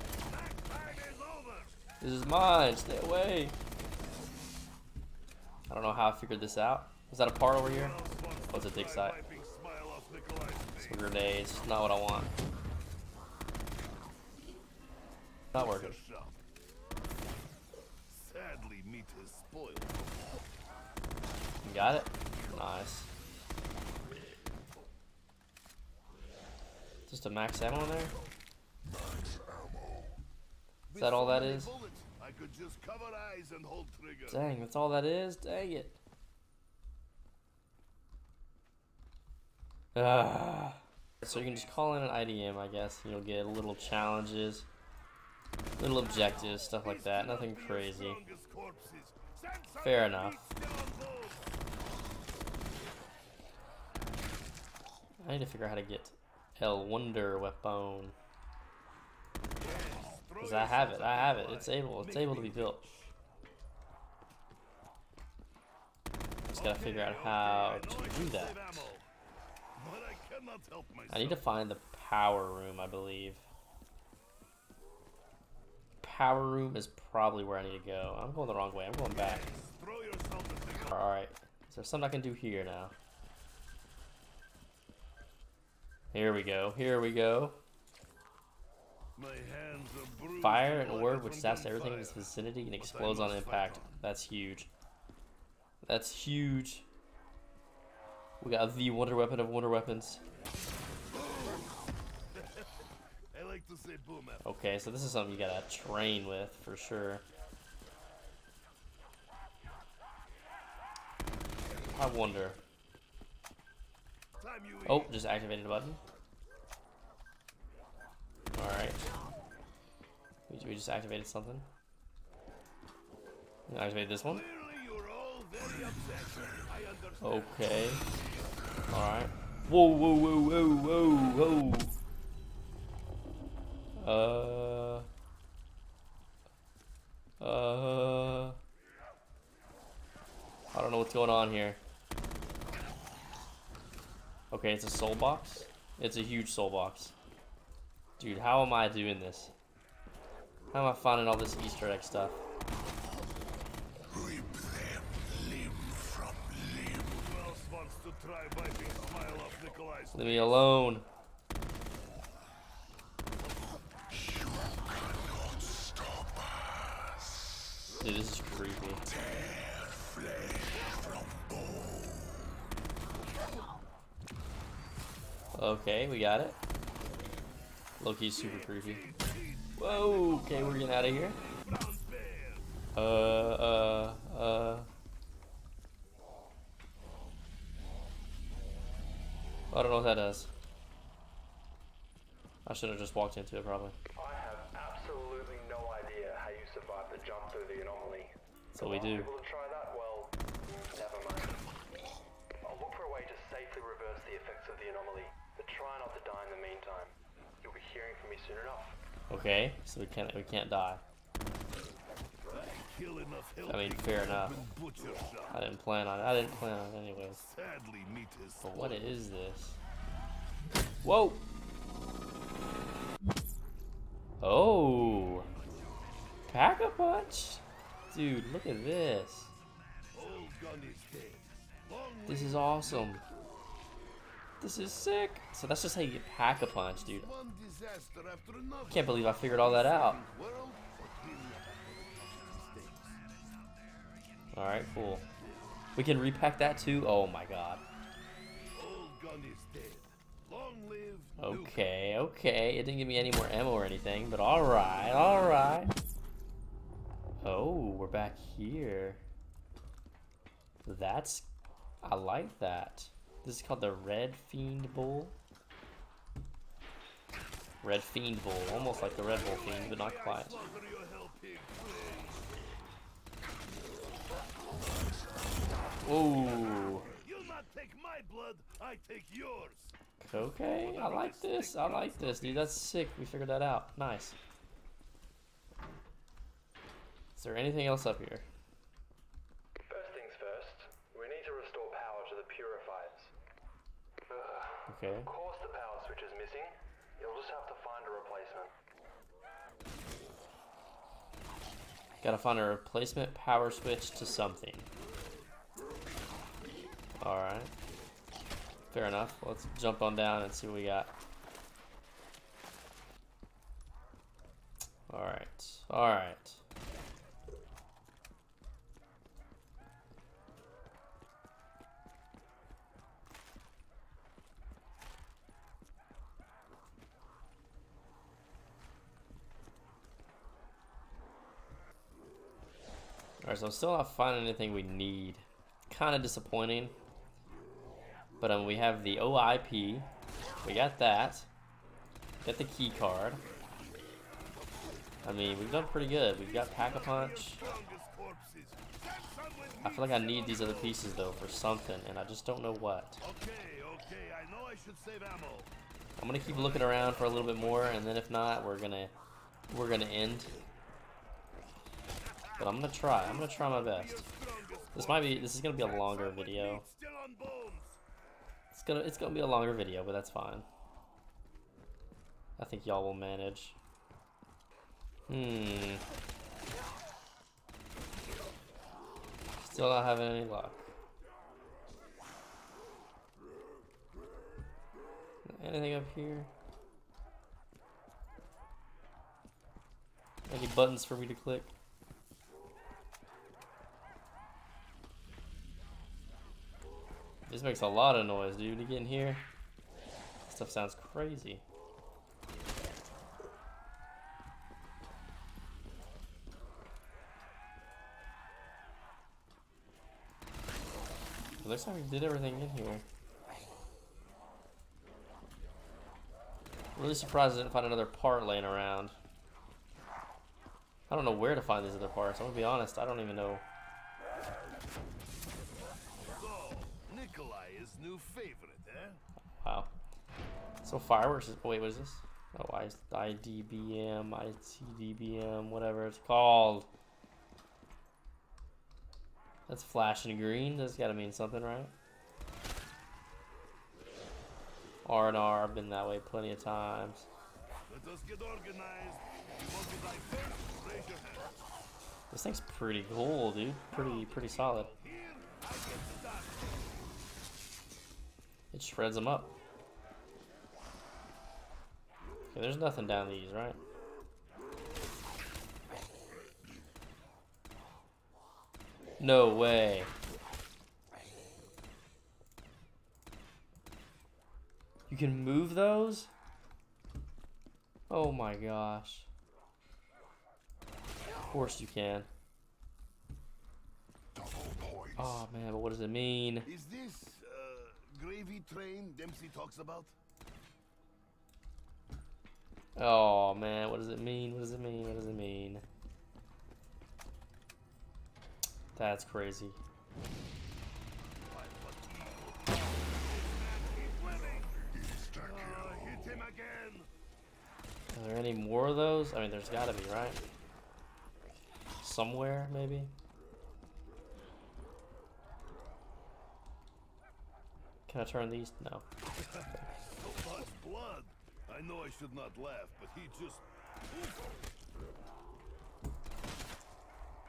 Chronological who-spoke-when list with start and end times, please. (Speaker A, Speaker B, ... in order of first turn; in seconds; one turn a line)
Speaker A: 0.1-1.8
Speaker B: 2.0-3.5
Speaker B: 5.7-8.0
Speaker A: 7.5-11.2
Speaker B: 8.5-9.2
Speaker B: 10.8-12.3
Speaker B: 15.5-16.0
Speaker A: 15.5-16.4
Speaker A: 18.1-20.3
Speaker B: 21.6-23.1
Speaker B: 27.1-28.1
Speaker A: 30.9-34.4
Speaker B: 31.0-31.7
Speaker B: 34.3-36.0
Speaker B: 39.9-44.7
Speaker B: 45.8-48.2
Speaker A: 46.1-51.6
Speaker B: 49.8-50.4
Speaker B: 55.2-58.1
Speaker A: 59.6-63.1
Speaker B: 60.4-62.8
Speaker B: 66.5-68.6
Speaker A: 66.5-69.1
Speaker A: 69.8-71.4
Speaker B: 71.1-73.5
Speaker B: 76.0-79.5
Speaker A: 79.1-81.0
Speaker B: 80.9-82.9
Speaker B: 86.1-87.6
Speaker A: 89.2-93.9
Speaker B: 90.4-94.7
Speaker B: 95.8-96.9
Speaker B: 98.4-100.2
Speaker A: 101.1-104.5
Speaker B: 104.4-107.2
Speaker B: 111.9-112.6
Speaker A: 114.4-115.2
Speaker B: 114.8-116.0
Speaker B: 118.5-119.0
Speaker B: 120.5-121.7
Speaker B: 123.7-124.4
Speaker A: 124.2-128.2
Speaker B: 127.2-128.0
Speaker B: 128.9-131.9
Speaker B: 134.0-135.1
Speaker B: 137.4-138.6
Speaker B: 140.7-141.8
Speaker B: 144.5-147.1
Speaker B: 148.2-149.5
Speaker B: 150.7-152.4
Speaker A: 156.9-160.7
Speaker B: 160.1-161.1
Speaker B: 168.0-169.1
Speaker B: 175.5-176.6
Speaker B: 178.0-179.1
Speaker A: 178.3-182.7
Speaker B: 179.8-181.4
Speaker B: 182.9-184.9
Speaker B: 189.7-190.5
Speaker B: 192.7-193.9
Speaker C: 194.2-201.6
Speaker B: 198.7-199.3
Speaker C: 202.6-209.0
Speaker B: 209.3-211.0
Speaker A: 212.5-215.6
Speaker B: 213.7-214.6
Speaker B: 215.5-217.4
Speaker A: 217.3-219.2
Speaker B: 218.6-219.8
Speaker B: 221.0-221.4
Speaker B: 224.4-225.5
Speaker A: 225.4-226.4
Speaker B: 226.5-229.5
Speaker A: 230.1-233.2
Speaker B: 232.3-233.2
Speaker B: 234.6-237.3
Speaker A: 236.9-243.2
Speaker B: 238.9-240.2
Speaker B: 244.5-245.2
Speaker A: 245.3-245.8
Speaker B: 245.9-247.8
Speaker A: 248.7-251.8
Speaker B: 251.4-255.9
Speaker B: 257.4-259.2
Speaker B: 260.9-261.5
Speaker B: 262.0-265.4
Speaker B: 267.8-270.6
Speaker A: 268.7-272.5
Speaker B: 276.0-277.1
Speaker A: 277.1-279.9
Speaker B: 280.2-284.4
Speaker A: 280.8-282.7
Speaker B: 287.4-288.4
Speaker C: 289.9-293.3
Speaker C: 294.3-298.7
Speaker B: 294.9-295.3
Speaker B: 302.2-304.9
Speaker B: 307.2-307.7
Speaker B: 308.9-311.1
Speaker B: 315.1-316.6
Speaker B: 333.4-336.9
Speaker B: 338.4-340.1
Speaker B: 340.6-341.5
Speaker B: 342.4-343.4
Speaker B: 345.2-347.6
Speaker A: 346.4-351.4
Speaker B: 349.8-353.2
Speaker A: 353.2-355.7
Speaker B: 356.2-359.1
Speaker A: 356.4-358.0
Speaker B: 359.7-360.5
Speaker B: 362.6-364.2
Speaker A: 363.2-368.0
Speaker B: 364.9-366.9
Speaker B: 368.7-370.6
Speaker B: 372.6-373.8
Speaker B: 375.3-376.0
Speaker B: 379.6-380.9
Speaker B: 385.4-386.5
Speaker B: 390.5-391.7
Speaker B: 397.5-399.4
Speaker B: 400.4-401.6
Speaker B: 411.6-413.0
Speaker B: 416.9-419.1
Speaker B: 421.1-423.6
Speaker A: 426.3-429.2
Speaker B: 429.6-429.9
Speaker B: 430.8-436.9
Speaker B: 439.7-441.9
Speaker B: 445.0-447.3
Speaker A: 447.9-451.6
Speaker B: 452.3-454.9
Speaker A: 453.9-456.9
Speaker B: 458.7-459.5
Speaker B: 462.5-463.8
Speaker B: 469.2-470.1
Speaker B: 475.1-476.3
Speaker B: 478.1-479.3
Speaker B: 481.4-482.3
Speaker A: 484.4-485.4
Speaker B: 485.1-486.7
Speaker A: 486.6-490.1
Speaker B: 492.9-495.8
Speaker B: 498.9-499.8
Speaker A: 501.4-507.1
Speaker B: 508.1-510.4
Speaker B: 512.0-513.1
Speaker B: 518.1-519.0
Speaker A: 519.3-524.6